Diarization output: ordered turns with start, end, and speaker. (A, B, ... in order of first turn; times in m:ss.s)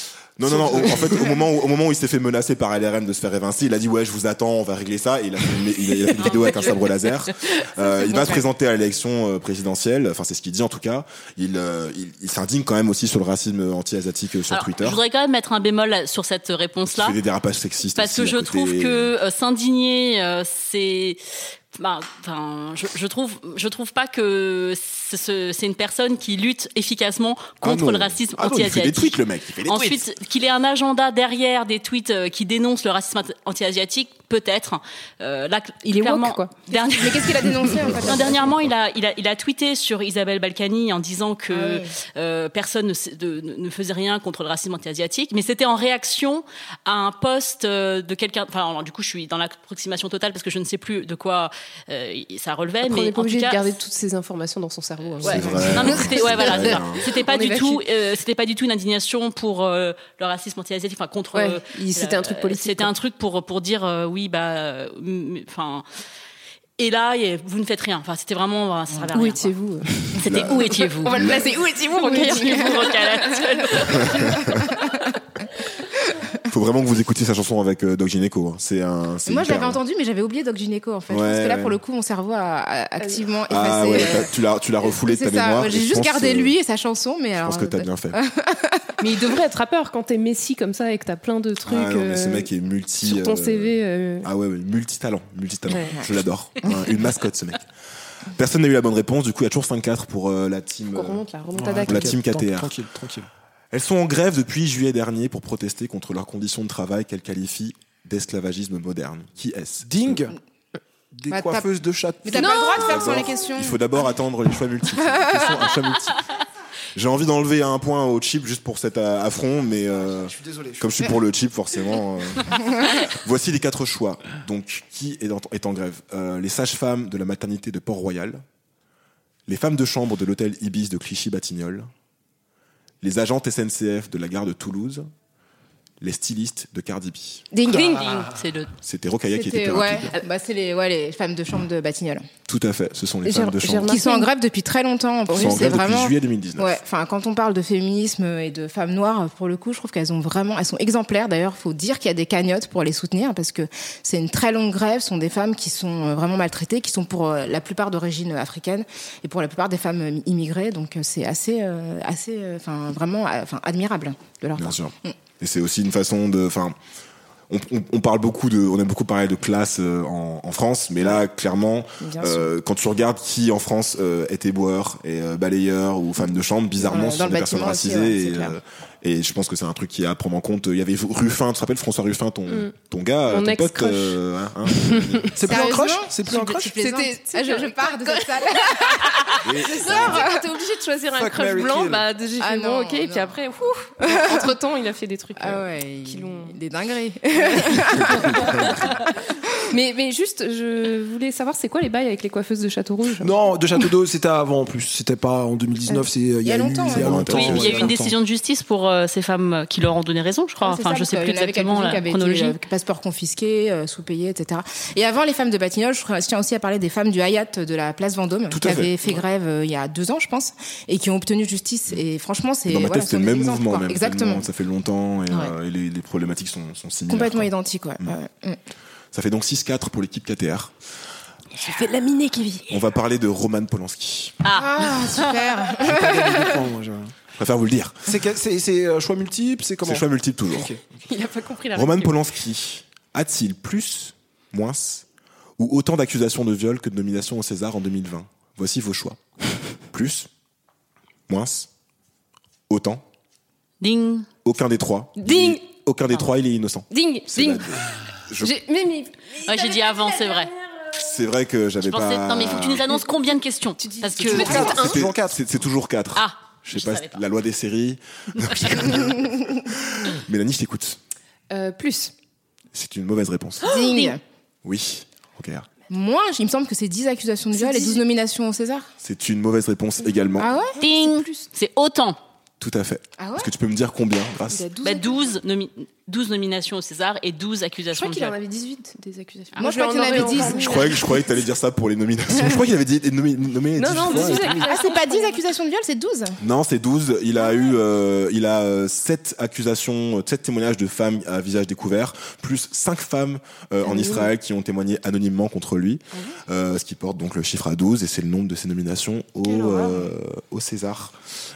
0:00.4-0:15.0 A
0:00.6-0:01.0 B
0:06.2-0:06.9 C
0:08.0-0:08.4 D
0:14.5-0:17.2 C
0:16.8-0:19.1 A
0:18.0-0:21.2 C
0:21.7-0:53.7 C
0:27.6-0:30.0 A
0:35.8-0:36.5 E
0:36.7-0:38.5 D
0:37.9-0:38.7 A
0:41.5-0:41.9 D
0:52.8-0:57.8 E
0:55.2-1:05.8 C
0:55.2-0:57.0 A
1:01.3-1:02.9 E
1:06.8-1:09.5 C
1:09.1-1:10.2 E
1:10.2-1:11.4 C
1:10.2-1:11.4 A
1:11.0-1:13.0 E
1:11.9-1:14.5 C
1:12.0-1:12.8 D
1:14.1-1:14.4 A
1:14.2-1:15.0 D
1:16.5-1:19.8 A
1:19.2-1:28.9 D
1:21.1-1:21.8 A
1:23.5-1:26.6 A
1:27.4-1:28.2 A
1:29.0-1:32.5 E
1:31.6-1:37.6 A
1:33.0-1:34.3 E
1:35.7-1:36.0 E
1:38.3-1:41.2 A
1:40.9-1:42.2 E
1:41.5-1:43.3 B
1:41.9-1:42.7 A
1:43.7-1:50.2 A
1:49.8-1:50.4 B
1:51.1-1:52.7 B
1:51.3-1:51.7 D
1:52.2-1:53.8 D
1:52.3-1:53.1 E
1:52.7-1:56.2 A
1:55.1-1:55.7 D
1:56.9-2:08.4 A
2:00.1-2:01.1 B
2:02.6-2:02.9 D
2:09.5-2:11.9 A
2:13.0-2:15.1 A
2:16.0-2:17.4 A
2:17.5-2:18.1 D
2:17.7-2:18.3 E
2:18.0-2:18.7 C
2:18.8-2:20.1 A
2:19.3-2:22.3 D
2:22.5-2:24.0 A
2:23.2-2:24.3 E
2:23.8-2:45.2 D
2:25.3-2:26.8 A
2:25.3-2:25.6 E
2:44.6-2:46.8 A
2:47.5-3:05.4 A
2:52.0-2:52.5 D
2:56.8-2:58.6 D
3:02.5-3:02.7 E
3:03.3-3:05.3 E
3:05.3-3:06.8 B
3:05.4-3:10.4 D
3:06.6-3:16.6 E
3:09.4-3:10.3 A
3:11.1-3:12.1 B
3:12.4-3:13.4 D
3:14.0-3:14.5 D
3:15.4-3:18.9 D
3:17.4-3:18.6 E
3:18.0-3:18.8 A
3:19.7-3:23.4 E
3:23.2-3:28.2 B
3:26.4-3:27.3 D
3:26.9-3:27.9 A
3:27.3-3:32.6 C
3:30.6-3:44.4 D
3:38.5-3:38.9 A
3:42.7-3:48.1 A
3:47.1-3:48.6 D
3:49.1-3:50.7 A
3:51.6-3:52.7 E
3:52.7-3:54.4 A
3:54.4-3:55.5 C
3:54.5-3:56.6 D
3:55.8-3:57.2 B
3:57.4-3:58.1 A
3:58.0-4:00.8 B
3:59.8-4:00.7 A
4:01.1-4:02.2 E
4:01.7-4:05.0 A
4:05.6-4:09.2 A
4:09.9-4:10.3 A
4:11.3-4:11.7 A
4:12.7-4:13.0 A
4:13.8-4:14.3 C
4:14.4-4:18.6 A
4:15.2-4:15.6 E
4:16.9-4:17.7 E
4:18.4-4:20.5 E
4:19.4-4:20.5 C
4:20.9-4:22.9 A
4:21.8-4:24.8 C
4:23.8-4:25.0 E
4:24.2-4:25.4 B
4:24.4-4:31.0 A
4:26.2-4:27.2 C
4:28.4-4:29.0 C
4:31.5-4:32.1 E
4:32.7-4:33.7 A
4:33.6-4:34.2 D
4:33.7-4:34.1 C
4:34.6-4:35.7 A
4:35.9-4:38.9 D
4:37.5-4:38.0 E
4:39.0-4:40.5 A
4:40.4-4:40.8 D
4:40.7-4:41.5 E
4:40.8-4:42.2 C
4:42.6-4:44.6 A
4:43.2-4:43.5 D
4:44.5-4:45.3 E
4:44.8-4:48.4 C
4:47.9-4:51.0 E
4:49.6-4:51.0 D
4:50.4-4:54.6 A
4:53.8-4:55.4 E
4:54.2-4:56.4 D
4:56.4-5:11.2 A
5:03.8-5:04.3 E
5:09.4-5:10.0 D